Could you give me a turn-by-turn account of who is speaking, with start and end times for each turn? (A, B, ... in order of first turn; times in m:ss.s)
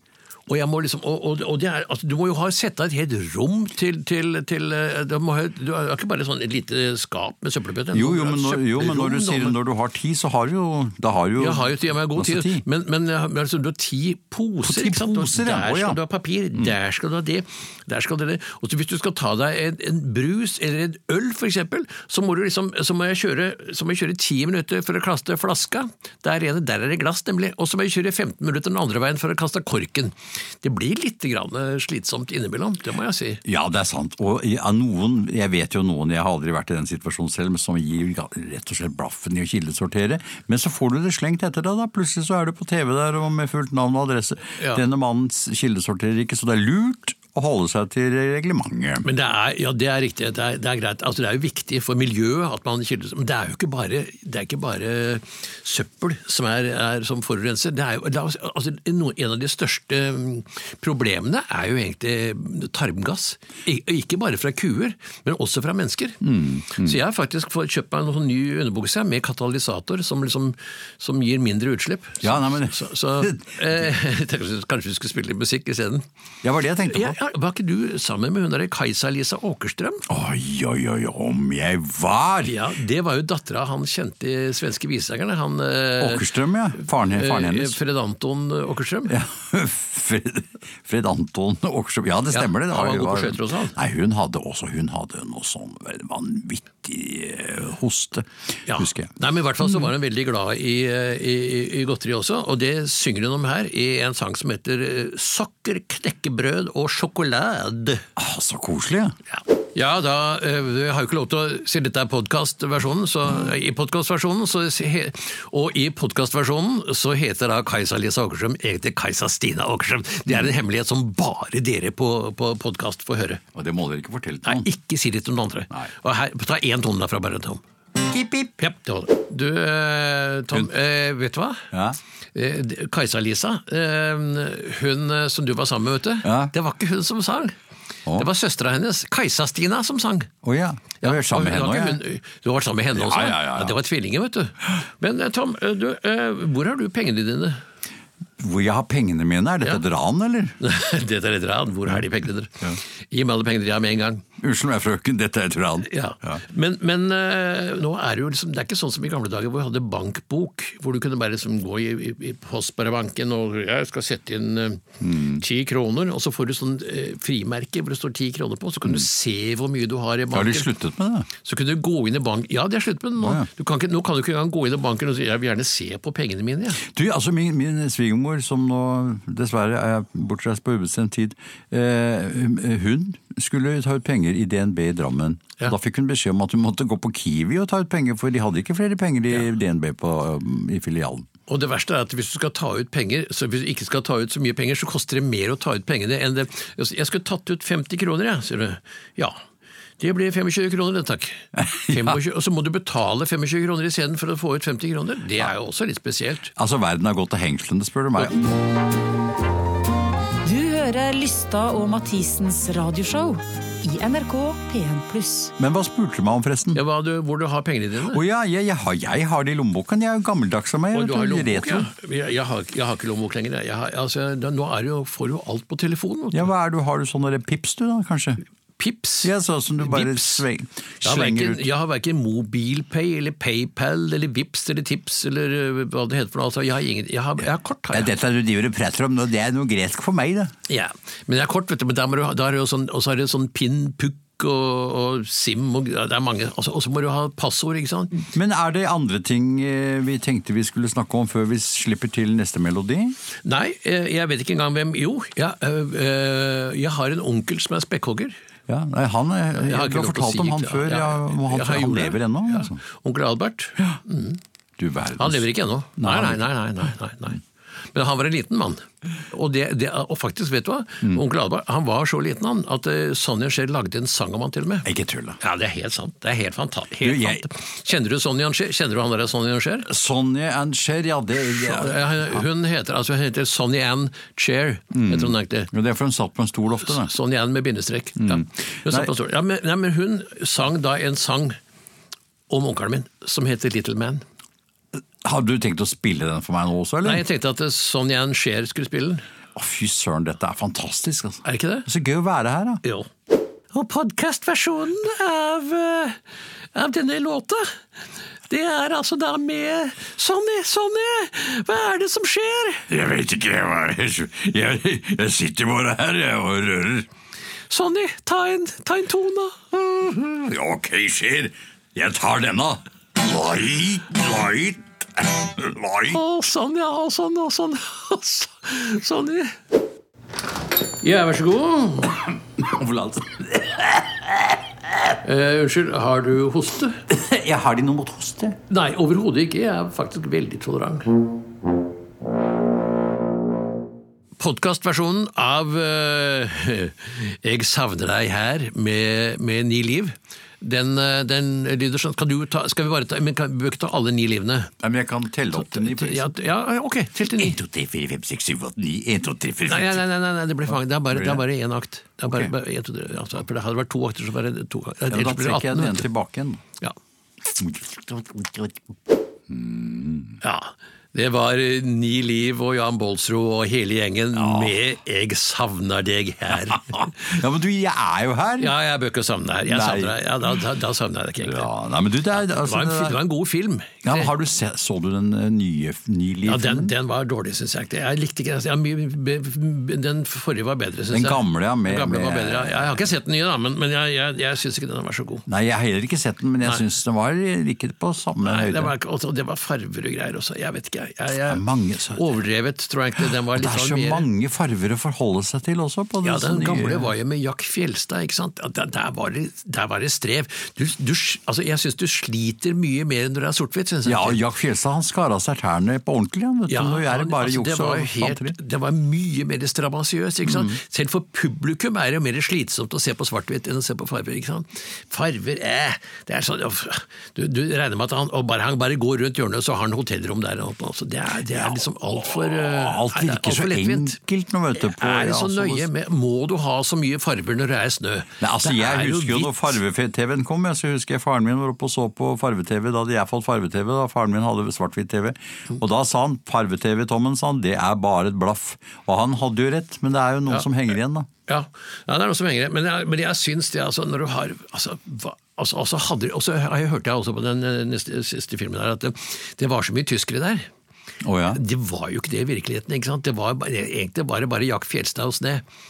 0:00.5-0:09.6 A
0:07.9-0:12.6 B
0:11.4-0:33.4 A
0:14.6-0:16.0 B
0:33.4-0:49.0 B
0:44.6-0:44.8 A
0:49.0-1:16.0 A
1:06.2-1:07.0 B
1:12.2-1:13.9 B
1:16.4-1:17.2 B
1:16.8-1:20.0 A
1:20.1-1:22.6 B
1:22.4-1:29.2 A
1:26.0-1:27.8 B
1:29.1-1:39.1 B
1:32.3-1:33.8 A
1:38.6-1:48.0 A
1:48.2-1:49.1 B
1:49.3-2:03.4 A
2:03.5-2:04.7 B
2:04.4-2:07.6 A
2:08.0-2:08.5 B
2:08.6-2:11.6 A
2:11.7-2:12.0 B
2:12.3-2:17.5 A
2:16.2-2:16.5 B
2:18.2-2:20.3 A
2:20.4-2:22.0 B
2:21.0-2:27.6 A
2:22.9-2:23.8 B
2:28.4-2:30.6 B
2:30.6-2:34.2 A
2:34.4-2:36.4 B
2:35.8-2:50.7 A
2:45.0-2:45.4 B
2:50.3-2:51.3 B
2:51.4-2:56.8 A
2:53.2-2:53.5 B
2:56.8-3:11.3 B
3:11.5-3:19.4 A
3:20.0-3:26.5 A
3:21.5-3:22.2 B
3:26.6-3:28.4 B
3:30.4-3:35.5 C
3:35.6-3:36.8 B
3:36.7-3:38.2 A
3:38.1-3:41.9 B
3:40.9-3:46.5 A
3:46.3-3:48.4 B
3:48.8-3:50.4 A
3:49.2-3:51.6 B
3:51.0-3:58.1 A
3:57.9-4:00.5 B
4:00.7-4:08.2 A
4:08.3-4:13.2 B
4:13.4-4:18.3 A
4:18.7-4:22.8 B
4:19.6-4:24.4 A
4:24.8-4:26.4 B
4:25.2-4:27.4 A
4:27.9-4:34.9 A
4:34.8-4:35.4 B
4:35.4-4:39.9 A
4:37.0-4:37.4 B
4:39.8-4:42.4 B
4:41.5-4:45.7 A
4:44.9-4:47.1 B
4:46.8-4:51.6 A
4:48.2-4:49.1 B
4:52.5-4:54.2 A
4:55.2-4:57.2 B
4:57.0-4:59.2 A
4:59.5-5:02.8 B
5:01.4-5:01.9 A
5:02.8-5:03.1 A
5:03.7-5:06.2 A
5:06.7-5:07.8 A
5:08.5-5:12.9 A
5:12.9-5:17.1 B
5:17.7-5:19.6 A
5:19.7-5:26.2 B
5:26.1-5:29.5 A
5:31.0-5:32.2 A
5:32.6-5:34.5 B
5:35.2-5:37.0 A
5:37.1-5:38.6 B
5:38.7-5:41.1 A
5:44.4-5:54.7 A
5:54.8-5:56.3 B
5:55.5-5:57.6 A
5:57.2-6:00.0 B
5:59.7-6:06.1 A
6:01.1-6:01.4 B
6:05.1-6:06.6 B
6:07.5-6:08.8 B
6:09.5-6:10.4 B
6:10.4-6:17.1 A
6:14.3-6:14.8 B
6:16.7-6:18.7 B
6:18.6-6:21.7 A
6:19.7-6:20.2 B
6:21.4-6:23.2 B
6:22.4-6:24.3 A
6:24.0-6:26.9 B
6:26.4-6:35.4 A
6:31.1-6:33.1 B
6:35.5-6:38.9 B
6:38.4-6:41.6 A
6:41.4-6:42.3 B
6:42.1-6:44.2 A
6:43.5-6:47.1 B
6:46.2-6:54.4 A
6:54.0-6:58.6 B
6:56.7-7:14.2 A
7:00.4-7:00.8 B
7:11.5-7:15.9 B
7:14.7-7:19.7 A
7:18.4-7:31.3 B
7:31.5-7:40.7 A
7:41.2-7:41.6 B
7:41.5-7:45.6 A